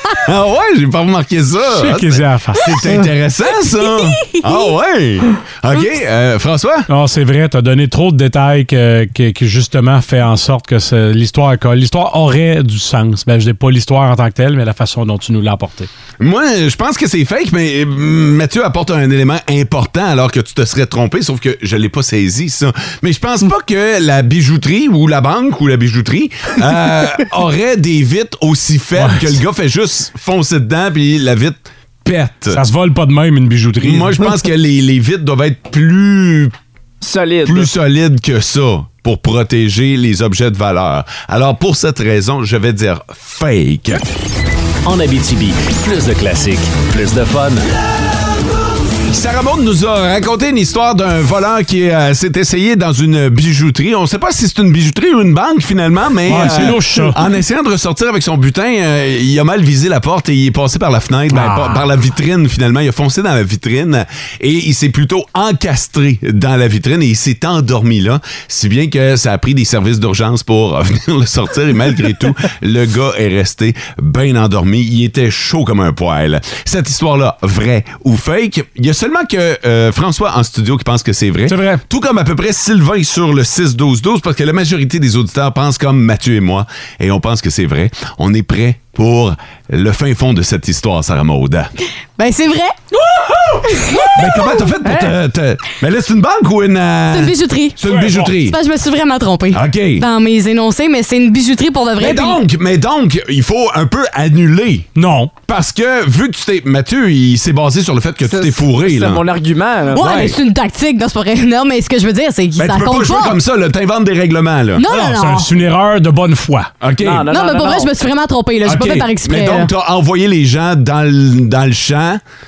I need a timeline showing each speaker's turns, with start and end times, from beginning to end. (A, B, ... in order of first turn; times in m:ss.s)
0:00.2-0:06.9 A
0:01.7-0:02.9 B
0:03.8-0:04.6 C
0:06.9-0:15.9 B
0:16.2-0:32.6 A
0:29.0-0:29.4 B
0:32.5-0:34.3 B
0:33.8-0:36.5 A
0:37.0-0:37.7 D
0:37.4-0:44.1 A
0:44.8-0:47.6 E
0:49.1-1:31.7 A
0:56.3-0:57.2 B
1:01.3-1:01.8 B
1:21.5-1:21.8 B
1:32.2-1:32.9 C
1:33.6-1:34.6 C
1:34.1-1:38.6 A
1:34.8-1:35.1 D
1:37.1-1:37.8 C
1:37.8-1:38.3 B
1:38.4-1:42.4 C
1:39.5-1:40.0 A
1:42.0-1:44.9 A
1:45.0-1:45.3 B
1:45.5-1:49.2 A
1:48.2-1:50.1 D
1:49.9-1:53.4 C
1:49.9-1:50.4 A
1:52.6-1:54.8 A
1:54.8-1:55.5 C
1:54.9-1:56.7 B
1:56.8-1:57.3 A
1:57.0-1:57.9 D
1:57.3-1:59.7 C
1:58.6-2:02.2 A